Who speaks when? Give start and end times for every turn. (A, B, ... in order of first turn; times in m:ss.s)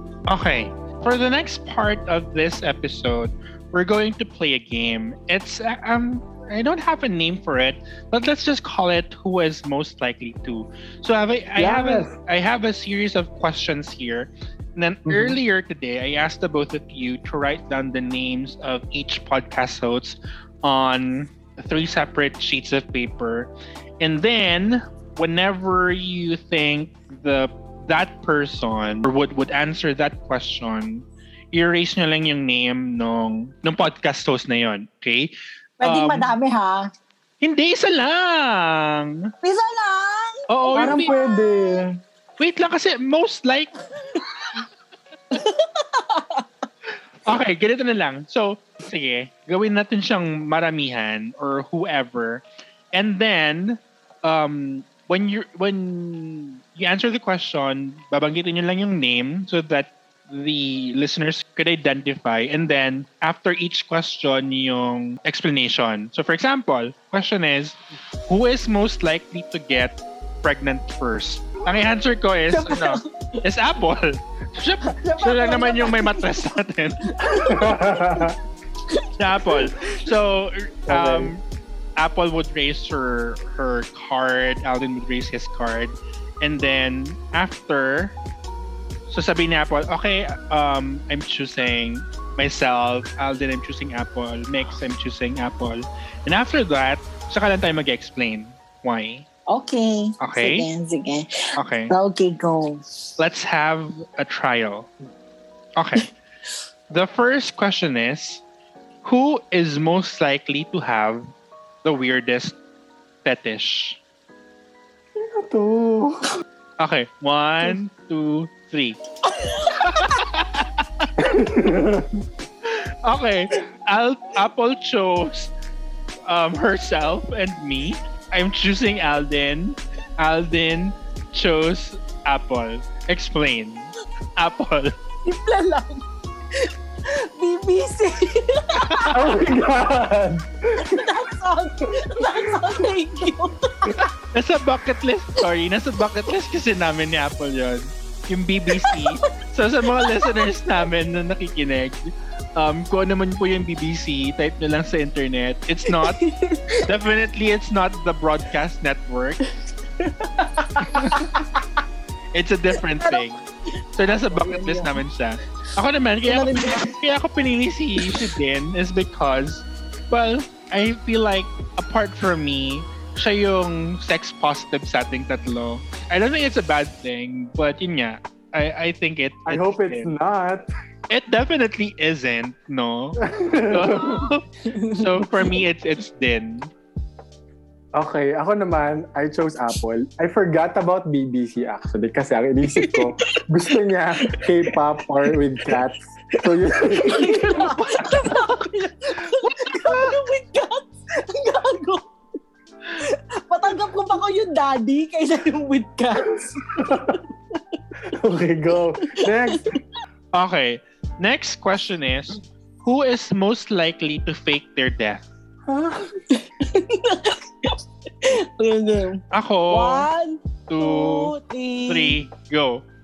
0:00.3-0:36.3 A
0:11.6-0:12.1 B
0:15.0-0:15.4 B
0:35.8-0:36.9 C
0:37.4-0:39.3 A
0:39.4-0:41.8 C
0:40.5-0:41.1 A
0:40.7-0:42.0 B
0:42.4-0:43.9 A
0:45.3-0:46.4 C
0:47.2-1:17.4 A
1:12.5-1:13.4 C
1:14.8-1:16.3 C
1:17.0-1:18.3 C
1:17.4-1:18.4 B
1:18.9-1:20.0 C
1:19.2-1:21.4 A
1:20.9-1:21.3 B
1:22.0-1:28.2 A
1:29.1-1:39.2 A
1:39.5-1:43.1 C
1:40.2-1:40.7 A
1:41.6-1:41.9 A
1:43.2-1:44.9 A
1:45.8-1:46.1 A
1:46.9-1:48.4 A
1:49.0-1:51.2 A
1:51.8-1:52.6 A
1:53.2-1:54.0 A
1:55.2-1:56.3 B
1:56.8-1:59.0 A
1:59.3-2:00.2 C
1:59.8-2:01.1 A
2:01.2-2:02.2 B
2:02.6-2:05.5 A
2:06.2-2:14.9 A
2:15.2-2:16.0 C
2:16.6-2:19.3 C
2:18.8-2:19.1 A
2:19.1-2:21.1 B
2:20.8-2:24.1 C
2:22.1-2:22.7 B
2:24.3-2:36.2 A
2:28.7-2:29.1 C
2:29.8-2:30.5 C
2:35.9-2:36.9 C
2:36.8-2:39.4 A
2:40.0-2:41.6 C
2:40.9-2:41.2 A
2:42.3-2:43.4 A
2:42.9-2:43.2 C
2:44.0-3:00.1 A
2:44.3-2:45.0 C
2:46.2-2:47.0 C
2:48.0-2:48.3 C
2:59.4-3:00.7 B
3:01.1-3:06.7 A
3:03.2-3:04.3 B
3:04.6-3:05.5 C
3:07.9-3:17.8 B
3:12.8-3:13.4 C
3:14.3-3:14.7 C
3:15.3-3:15.7 C
3:16.4-3:22.1 C
3:22.9-3:27.2 C
3:26.7-3:27.2 B
3:28.1-3:29.7 B
3:29.0-3:29.8 C
3:30.3-3:35.2 A
3:35.7-3:36.1 B
3:36.3-3:42.2 C
3:39.3-3:40.1 A
3:40.7-3:41.3 A
3:41.9-3:42.8 A